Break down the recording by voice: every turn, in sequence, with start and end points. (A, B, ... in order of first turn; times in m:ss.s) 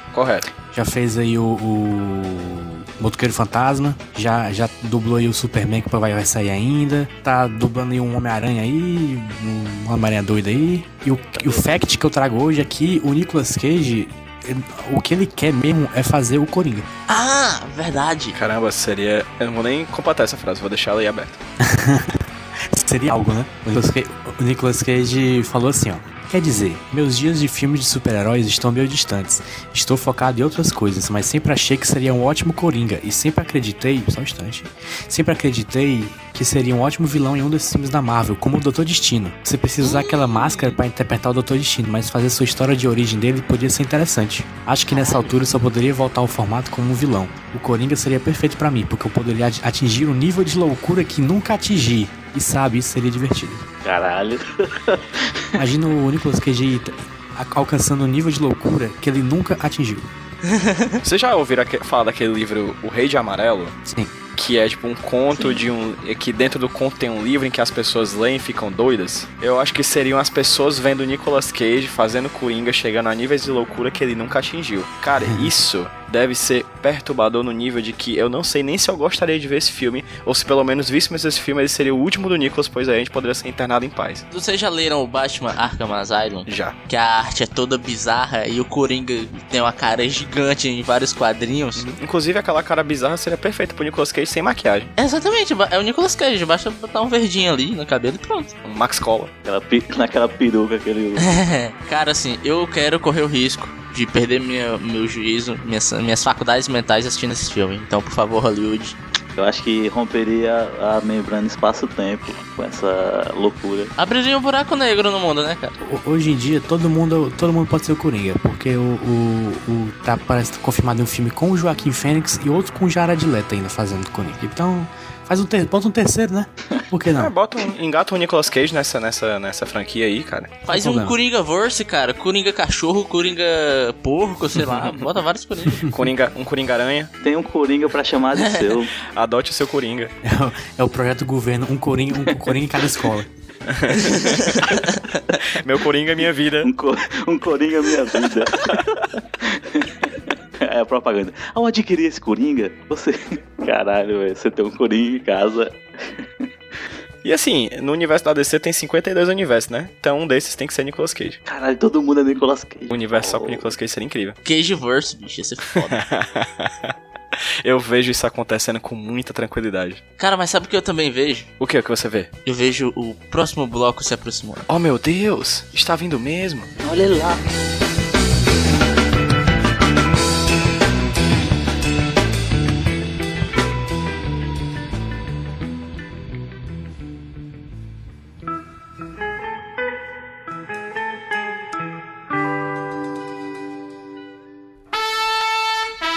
0:00.1-0:00.5 A
0:00.7-0:16.9 B
0:17.1-0:18.4 C
0:18.3-0:21.4 A
0:21.6-0:53.6 B
0:39.8-0:40.8 C
0:44.9-0:45.4 C
0:53.8-0:55.6 D
0:55.6-1:00.1 B
1:00.4-1:01.0 C
1:01.0-1:03.8 A
1:03.9-1:04.2 B
1:04.4-1:24.3 A
1:24.3-1:31.9 C
1:26.5-1:26.8 A
1:31.8-1:34.9 A
1:35.0-1:38.6 C
1:38.6-1:39.3 A
1:39.4-1:41.3 D
1:41.2-1:49.0 C
1:49.4-1:53.9 D
1:54.0-1:55.8 C
1:55.8-2:07.3 B
2:07.1-2:10.6 A
2:10.7-2:15.9 C
2:10.7-2:11.2 B
2:15.7-2:16.1 B
2:15.9-2:17.1 A
2:17.2-2:18.9 D
2:18.4-2:18.7 C
2:19.1-2:20.1 A
2:20.2-2:23.3 B
2:23.7-2:24.8 A
2:24.1-2:24.6 C
2:25.4-2:26.7 A
2:26.6-2:36.5 D
2:37.2-2:41.4 A
2:41.5-2:43.7 D
2:42.9-2:44.4 A
2:44.4-2:46.0 C
2:45.8-2:47.0 A
2:47.6-2:50.0 A
2:50.2-2:51.5 C
2:51.6-2:52.3 A
2:52.5-2:54.6 C
2:54.7-2:56.7 A
2:56.8-2:57.4 D